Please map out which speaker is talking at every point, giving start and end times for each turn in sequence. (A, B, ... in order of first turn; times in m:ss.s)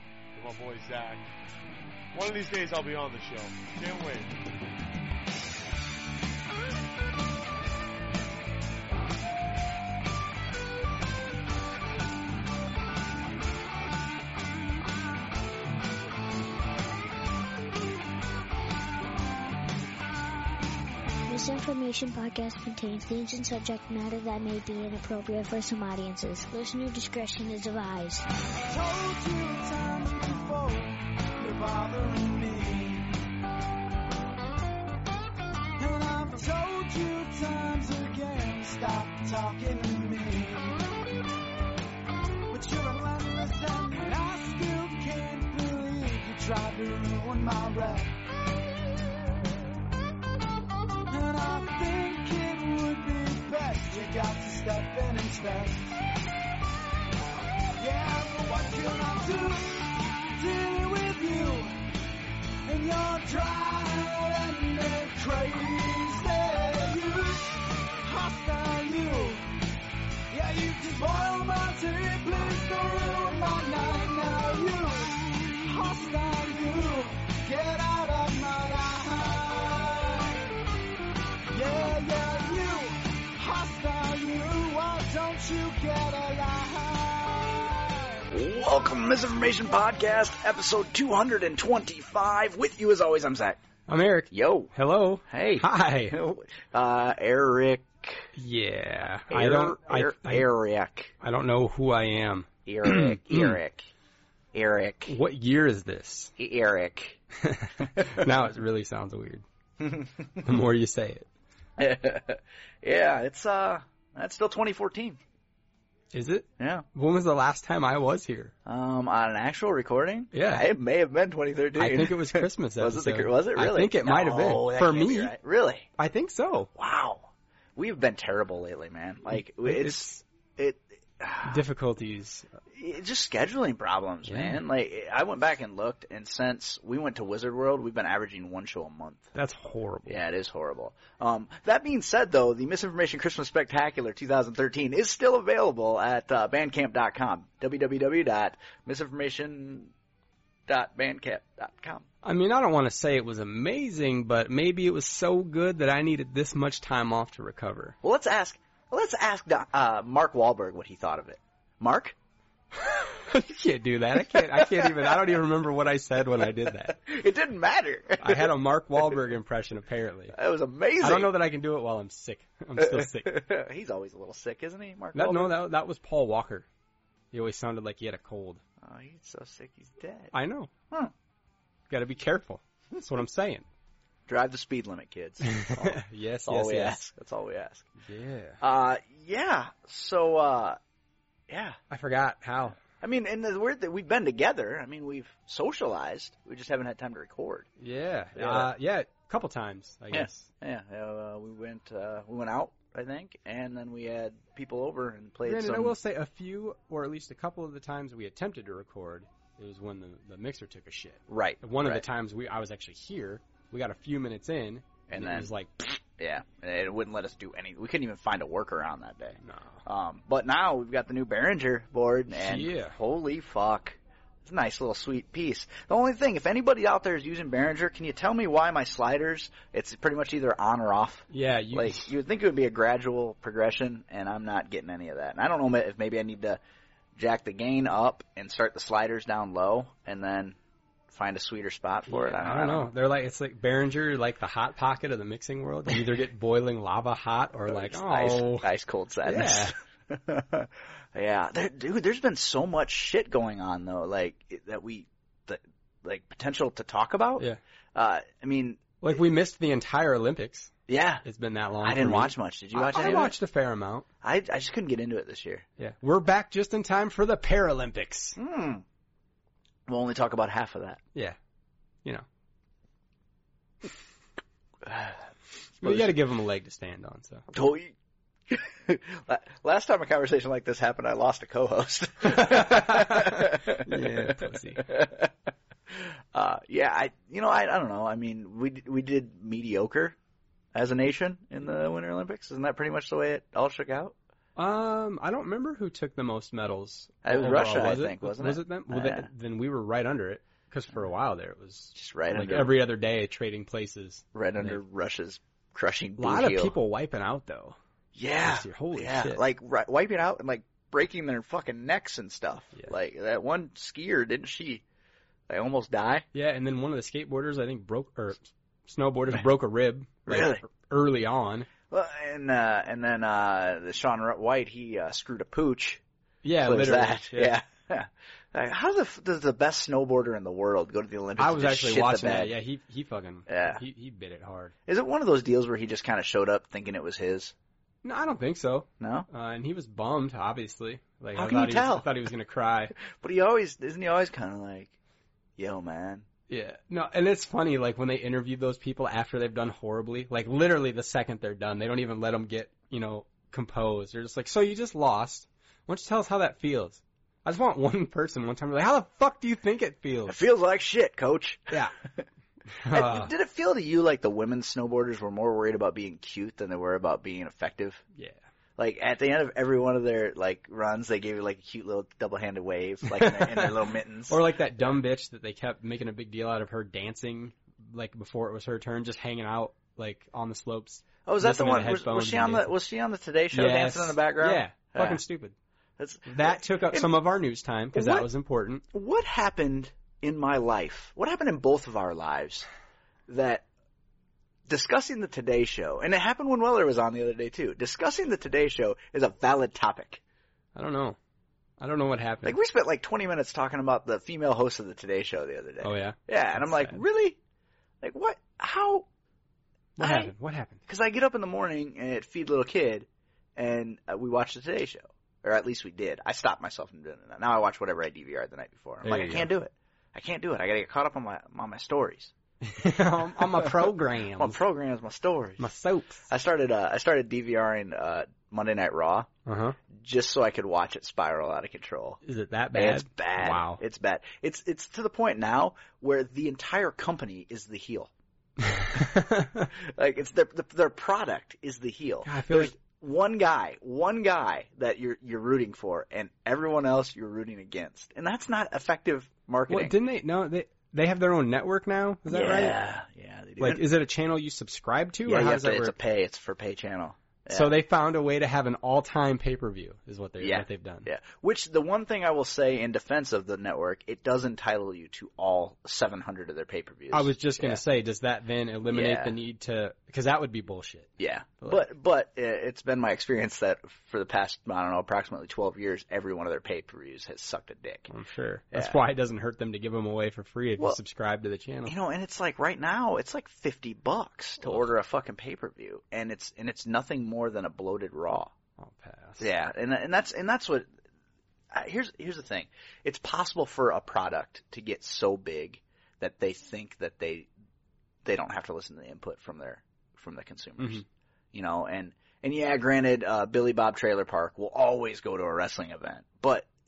0:00.3-0:01.3 A
0:02.1-0:04.3 A
0:21.3-0:28.3 B
0:28.7-0:33.2 C
0:35.8-0:40.8 C
0:42.5-0:48.2 C
0:51.1-0:56.0 C
0:57.8-1:01.9 C
1:02.6-1:09.5 C
1:10.3-1:20.6 C
1:21.5-1:28.3 C
1:28.3-1:33.6 D
1:33.9-1:36.2 E
1:34.3-1:34.7 D
1:35.3-1:38.3 D
1:38.4-1:40.5 E
1:39.3-1:41.1 D
1:41.2-1:43.6 E
1:42.7-1:43.9 D
1:44.5-1:45.2 D
1:45.1-1:46.3 E
1:46.4-1:47.2 D
1:47.4-1:49.4 E
1:48.0-1:48.2 D
1:49.8-1:50.5 D
1:50.4-1:51.3 E
1:51.8-1:55.2 D
1:56.1-1:58.5 E
1:56.6-1:56.8 D
1:58.7-2:05.9 D
2:00.3-2:00.7 E
2:01.8-2:05.4 E
2:06.0-2:06.7 E
2:06.8-2:11.6 D
2:09.3-2:10.1 E
2:11.4-2:12.5 E
2:12.7-2:19.3 D
2:14.3-2:14.6 E
2:19.4-2:20.2 E
2:20.1-2:29.9 D
2:30.7-2:32.1 D
2:32.2-2:38.0 E
2:38.0-2:42.2 D
2:42.9-2:47.0 E
2:44.2-2:45.4 D
2:46.4-2:48.5 D
2:48.2-2:50.4 E
2:50.3-2:51.3 D
2:51.0-2:53.4 E
2:52.8-2:55.6 D
2:55.1-2:56.7 E
2:57.3-2:58.6 E
2:58.8-3:00.3 D
3:00.3-3:00.7 E
3:01.9-3:03.7 E
3:04.3-3:07.9 D
3:05.4-3:07.0 E
3:08.0-3:08.6 E
3:08.6-3:10.8 D
3:11.5-3:11.8 D
3:11.9-3:12.8 E
3:13.0-3:17.7 D
3:17.8-3:20.5 E
3:18.4-3:18.7 D
3:20.1-3:26.0 D
3:25.4-3:35.7 E
3:31.3-3:32.0 D
3:35.1-3:56.6 D
3:39.4-3:39.8 E
3:42.4-3:43.0 E
3:51.3-3:52.1 E
3:57.2-4:00.6 D
4:01.1-4:02.9 D
4:02.1-4:08.7 E
4:07.7-4:19.0 D
4:09.2-4:09.7 E
4:19.0-4:20.7 E
4:20.9-4:21.2 D
4:21.2-4:24.1 E
4:21.8-4:23.4 D
4:24.2-4:25.6 D
4:25.8-4:28.4 E
4:28.4-4:28.8 D
4:29.9-4:31.0 D
4:34.8-4:35.2 D
4:35.8-4:36.1 D
4:35.8-4:37.5 E
4:37.5-4:37.9 D
4:38.5-4:45.3 D
4:42.4-4:44.9 E
4:45.9-4:50.2 D
4:50.7-4:54.2 D
4:54.6-5:04.8 E
4:57.2-4:59.3 D
5:02.0-5:02.8 D
5:04.3-5:06.8 D
5:06.2-5:07.8 E
5:08.2-5:14.8 D
5:08.4-5:09.4 E
5:15.5-5:16.3 D
5:16.3-5:21.7 E
5:20.3-5:20.6 D
5:21.9-5:26.0 D
5:26.4-5:27.6 E
5:26.6-5:32.5 D
5:31.4-5:34.7 E
5:33.5-5:33.8 D
5:34.9-5:37.5 D
5:38.0-5:42.9 E
5:39.0-5:39.3 D
5:41.4-5:42.1 D
5:43.0-5:45.0 D
5:45.6-5:46.3 D
5:46.5-6:00.4 E
6:00.3-6:02.3 D
6:01.7-6:02.0 E
6:02.8-6:03.3 E
6:02.9-6:08.0 D
6:08.2-6:08.4 E
6:08.8-6:15.0 D
6:13.1-6:22.7 E
6:21.2-6:25.2 D
6:23.5-6:25.6 E
6:26.0-6:27.1 D
6:26.3-6:28.8 E
6:27.9-6:28.3 D
6:28.9-6:32.7 D
6:33.3-6:33.7 D
6:34.7-6:40.2 D
6:40.8-6:41.2 E
6:41.8-6:42.6 E
6:42.4-6:47.4 D
6:45.8-6:47.0 E
6:48.0-6:49.1 D
6:50.0-6:50.8 E
6:50.0-6:50.3 D
6:50.9-7:02.3 D
6:59.0-6:59.5 E
7:02.6-7:04.6 E
7:03.4-7:05.7 D
7:05.6-7:06.2 E
7:06.3-7:09.3 D
7:09.5-7:09.8 E
7:09.9-7:12.2 D
7:12.2-7:13.8 E
7:12.7-7:18.1 D
7:18.6-7:19.7 E
7:19.7-7:30.0 D
7:22.2-7:22.7 E
7:29.7-7:32.8 E
7:32.3-7:33.8 D
7:33.6-7:35.9 E
7:35.2-7:37.7 D
7:37.5-7:41.1 E
7:40.4-7:47.8 D
7:47.1-7:51.8 E
7:48.9-7:49.3 D
7:51.2-7:58.1 D
7:58.1-8:02.0 E
7:58.7-7:59.0 D
8:01.9-8:08.5 D
8:08.8-8:09.4 E
8:09.4-8:10.9 D
8:11.7-8:17.5 D
8:18.2-8:26.7 D
8:20.8-8:21.0 E